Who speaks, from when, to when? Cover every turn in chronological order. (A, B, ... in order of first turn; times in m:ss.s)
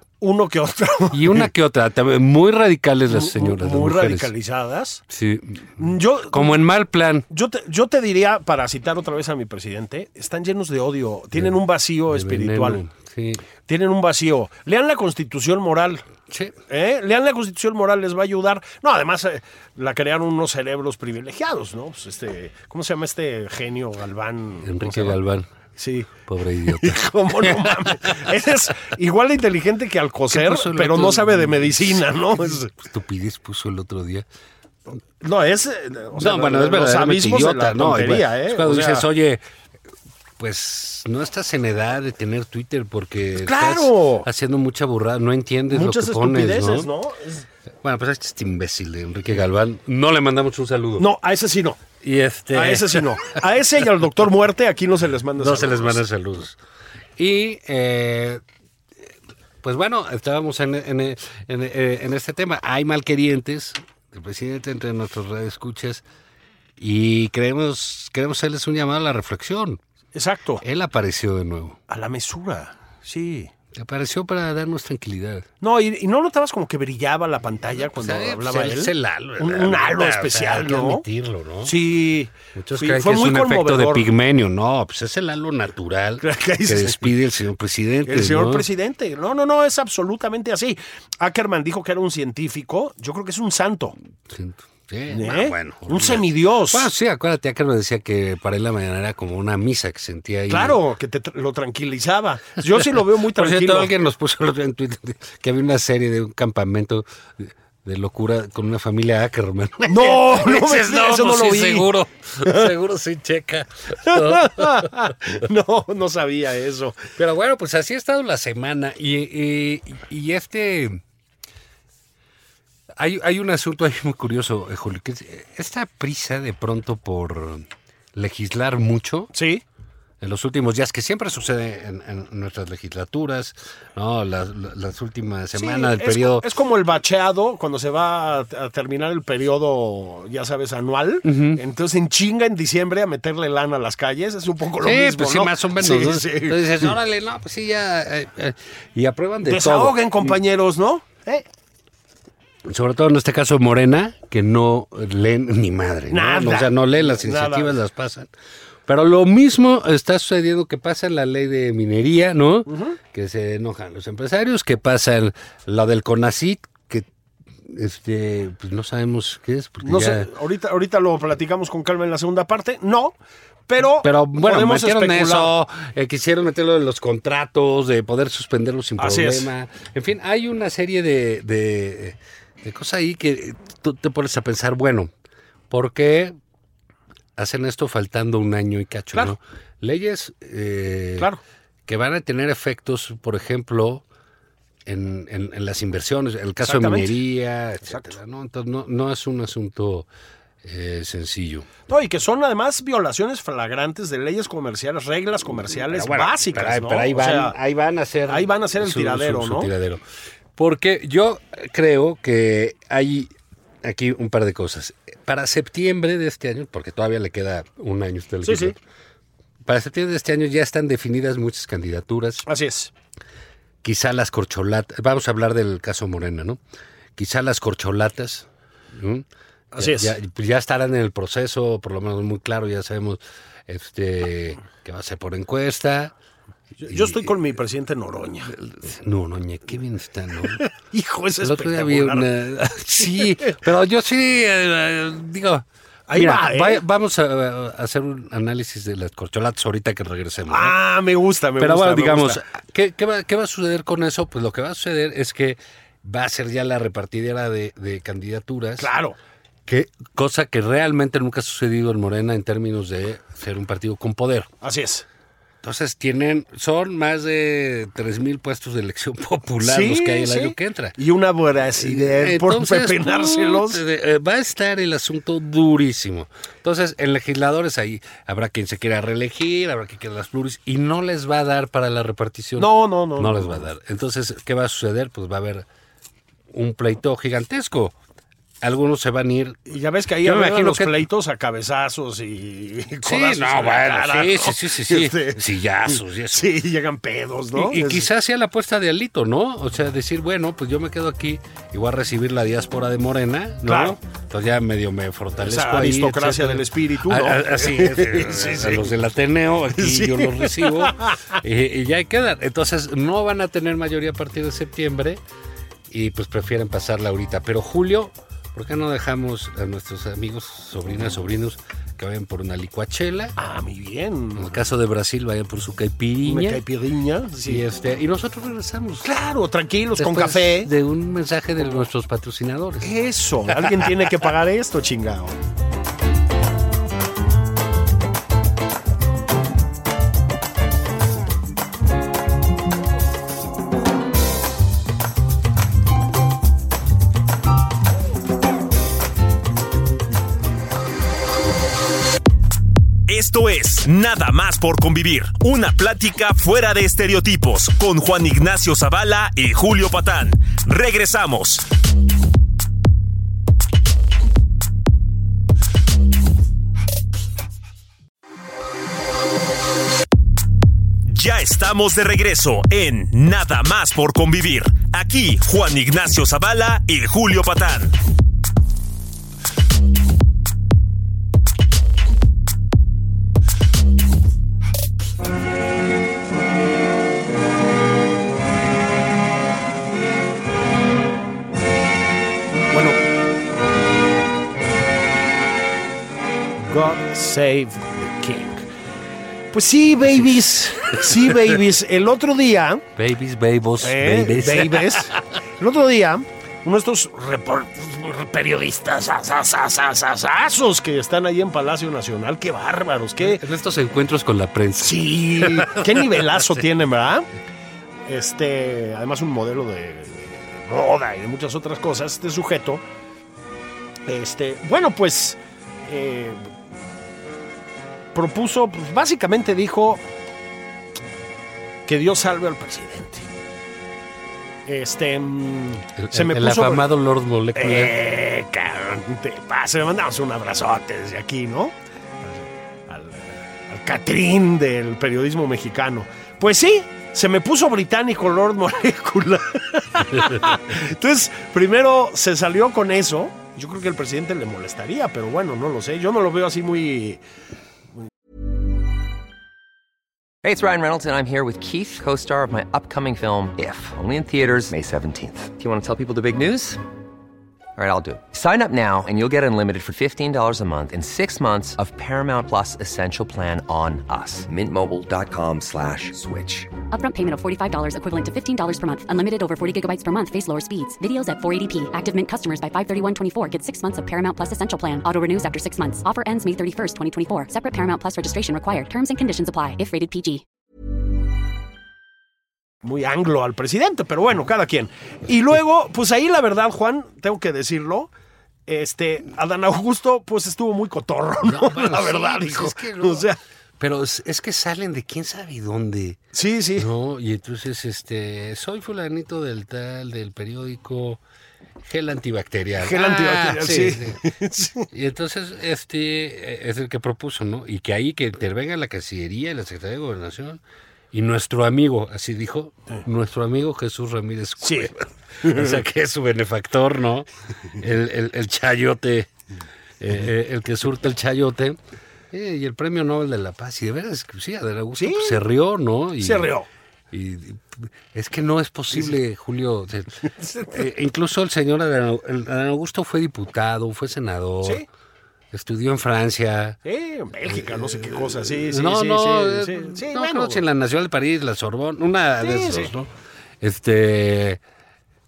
0:00.2-0:01.5 A
0:01.1-0:04.3 B
0:03.1-0:05.0 A
0:05.1-0:07.2 B
0:05.8-0:06.6 A
0:07.3-0:12.8 A
0:12.1-0:13.4 B
0:13.6-0:16.0 A
0:16.3-0:16.6 B
0:16.7-0:25.2 A
0:24.6-0:25.5 B
0:25.8-0:32.7 A
0:26.2-0:28.3 B
0:30.3-0:34.2 B
0:35.2-0:39.0 A
0:36.2-0:39.4 B
0:40.4-0:46.9 B
0:43.4-0:44.2 A
0:45.7-0:47.5 A
0:47.8-0:51.0 B
0:51.0-0:51.8 A
0:52.0-0:53.2 B
0:52.5-0:56.0 A
0:55.4-0:56.6 B
0:57.2-0:58.4 B
0:59.6-1:06.0 B
1:06.8-1:09.8 B
1:10.1-1:10.6 A
1:10.6-1:11.8 B
1:11.9-1:13.5 A
1:13.7-1:15.4 B
1:15.6-1:21.0 A
1:17.8-1:21.7 B
1:21.6-1:24.1 A
1:22.5-1:28.7 B
1:26.2-1:27.2 A
1:28.0-1:34.0 A
1:34.3-1:40.8 B
1:35.1-1:36.9 A
1:40.5-1:43.9 A
1:43.3-1:54.9 B
1:49.9-1:51.9 A
1:52.4-1:52.7 A
1:54.0-1:57.1 A
1:57.2-2:01.0 B
2:03.0-2:09.3 B
2:09.3-2:09.6 A
2:10.2-2:16.4 B
2:15.6-2:26.9 A
2:21.2-2:21.6 B
2:24.8-2:30.4 B
2:29.4-2:31.4 A
2:32.6-2:38.3 B
2:36.1-2:37.8 A
2:38.8-2:47.1 B
2:42.7-2:43.0 A
2:47.6-2:50.3 B
2:49.8-2:53.2 A
2:53.7-2:55.5 A
2:54.0-3:05.1 B
2:59.0-2:59.5 A
3:05.7-3:06.4 B
3:07.4-3:11.3 B
3:11.9-3:14.0 B
3:14.8-3:20.1 B
3:16.6-3:17.2 A
3:17.9-3:18.1 A
3:20.6-3:21.7 B
3:21.9-3:27.6 A
3:25.9-3:30.0 B
3:28.3-3:29.7 A
3:30.6-3:33.3 B
3:33.8-3:38.8 B
3:38.4-3:38.8 A
3:39.6-3:42.4 B
3:42.5-3:42.9 A
3:43.8-3:46.6 B
3:47.2-3:56.1 B
3:49.7-3:50.1 A
3:56.8-3:58.5 A
3:56.9-3:57.3 B
3:58.5-4:00.6 B
4:00.5-4:02.3 A
4:01.4-4:10.7 B
4:03.1-4:03.5 A
4:06.1-4:06.8 A
4:10.5-4:12.4 A
4:11.6-4:18.9 B
4:18.8-4:19.2 A
4:19.7-4:24.5 B
4:24.6-4:25.0 A
4:25.6-4:31.0 B
4:29.6-4:33.8 A
4:31.8-4:45.6 B
4:42.6-4:43.7 A
4:46.5-4:48.0 B
4:48.6-4:49.6 B
4:49.7-4:58.1 A
4:50.2-4:51.0 B
4:53.0-4:56.5 B
4:57.5-5:15.2 B
5:03.6-5:04.0 A
5:05.4-5:08.9 A
5:09.8-5:11.4 A
5:15.9-5:23.4 B
5:23.4-5:24.6 A
5:24.4-5:26.6 B
5:26.2-5:27.6 A
5:27.4-5:29.1 B
5:29.0-5:30.7 A
5:30.0-5:32.9 B
5:32.8-5:35.4 A
5:33.6-5:33.9 B
5:53.1-6:01.6 C
6:11.0-6:17.9 C
6:32.7-6:33.0 A
6:36.6-6:38.6 A
6:39.5-6:42.8 A
6:43.0-6:45.2 B
6:43.8-6:53.4 A
6:53.2-6:56.6 B
6:54.8-6:57.3 A
6:58.0-7:02.8 A
7:04.1-7:06.5 A
7:08.1-7:10.0 A
7:11.9-7:13.3 A
7:14.6-7:16.9 A
7:16.0-7:17.9 B
7:17.6-7:21.7 A
7:22.2-7:37.2 A
7:40.4-7:46.8 D
7:47.8-7:56.7 D
7:56.9-8:10.4 E
8:12.8-8:18.1 A
8:18.7-8:23.4 A
8:21.4-8:23.3 B
8:23.8-8:26.2 B
8:26.3-8:26.9 A
8:26.8-8:31.2 B
8:31.8-8:34.2 B
8:32.8-8:34.9 A
8:34.9-8:40.6 B
8:41.1-8:49.3 B
8:44.6-8:44.9 A
8:45.4-8:45.8 A
8:50.0-8:51.8 B
8:52.3-8:56.5 B
8:55.0-8:55.4 A
8:56.2-8:56.7 A
8:57.1-9:04.8 B
9:00.4-9:00.8 A
9:05.5-9:06.8 B
9:06.8-9:10.6 A
9:07.5-9:13.1 B
9:12.4-9:12.9 A
9:13.6-9:14.6 B